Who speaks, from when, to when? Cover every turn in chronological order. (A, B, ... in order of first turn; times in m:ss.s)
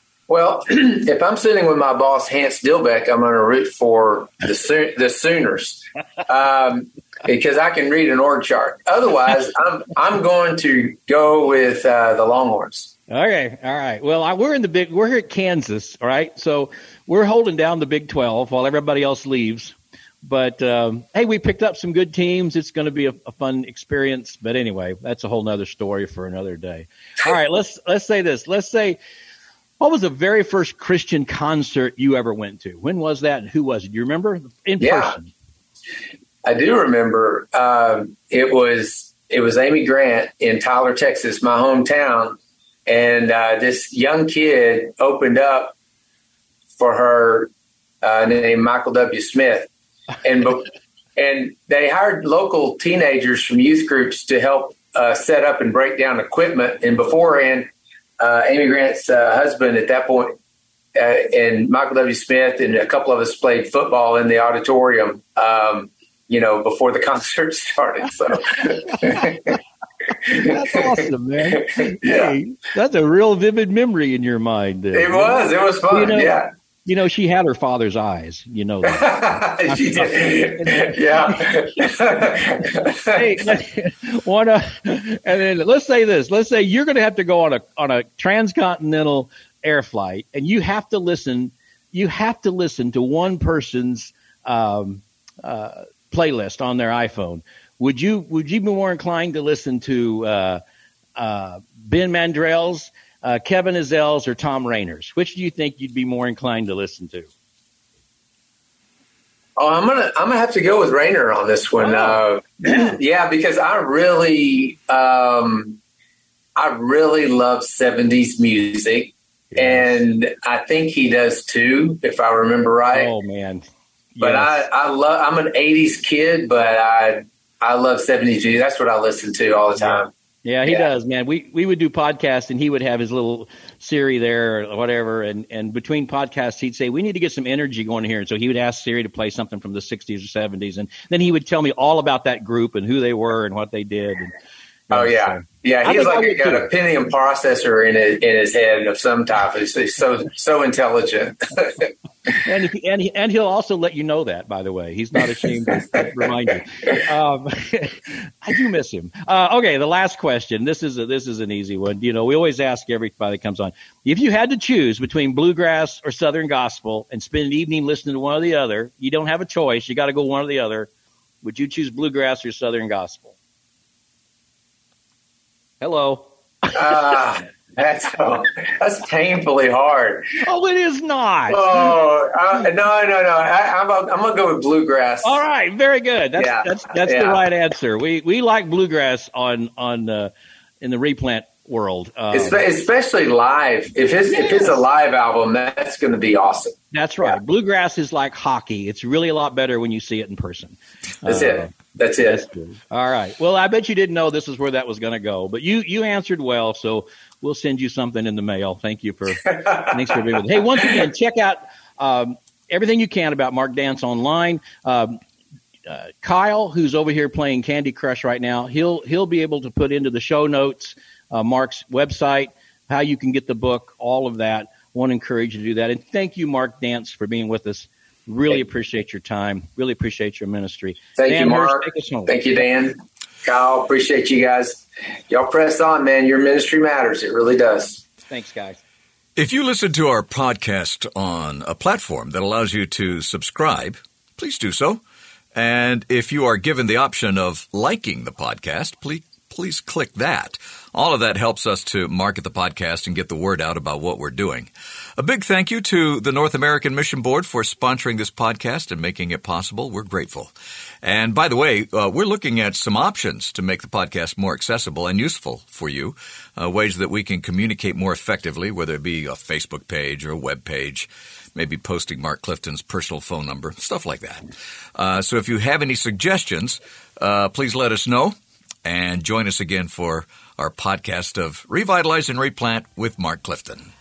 0:00.3-0:12.9 A
0:13.1-0:29.0 B
0:29.8-0:35.3 B
0:34.8-0:35.2 A
0:36.4-0:45.7 A
0:46.8-0:47.5 A
0:48.0-0:49.7 A
0:50.2-0:57.7 A
0:58.2-1:00.3 A
1:00.9-1:09.5 A
1:09.0-1:09.3 B
1:10.2-1:16.3 B
1:10.2-1:10.8 A
1:11.5-1:12.4 A
1:14.9-1:16.5 A
1:16.8-1:22.1 B
1:18.9-1:23.6 A
1:22.7-1:40.6 B
1:41.2-1:47.3 B
1:49.6-1:55.8 A
1:51.8-1:52.9 B
1:56.6-2:03.1 A
1:59.5-2:00.0 B
2:02.9-2:04.6 B
2:04.2-2:10.1 A
2:09.8-2:24.3 B
2:24.9-2:26.7 B
2:24.9-2:31.9 A
2:32.4-2:50.9 B
2:51.4-2:53.4 B
2:55.8-2:57.0 B
2:56.7-3:00.2 A
3:00.4-3:01.9 B
3:01.5-3:05.4 A
3:05.2-3:12.6 B
3:06.4-3:07.4 A
3:12.3-3:17.4 A
3:14.3-3:14.8 B
3:16.9-3:35.2 B
3:21.2-3:22.4 A
3:35.9-3:52.3 B
3:51.2-3:58.0 A
3:58.3-3:58.8 B
3:59.4-4:05.0 C
4:05.5-4:20.5 C
4:21.0-4:43.9 C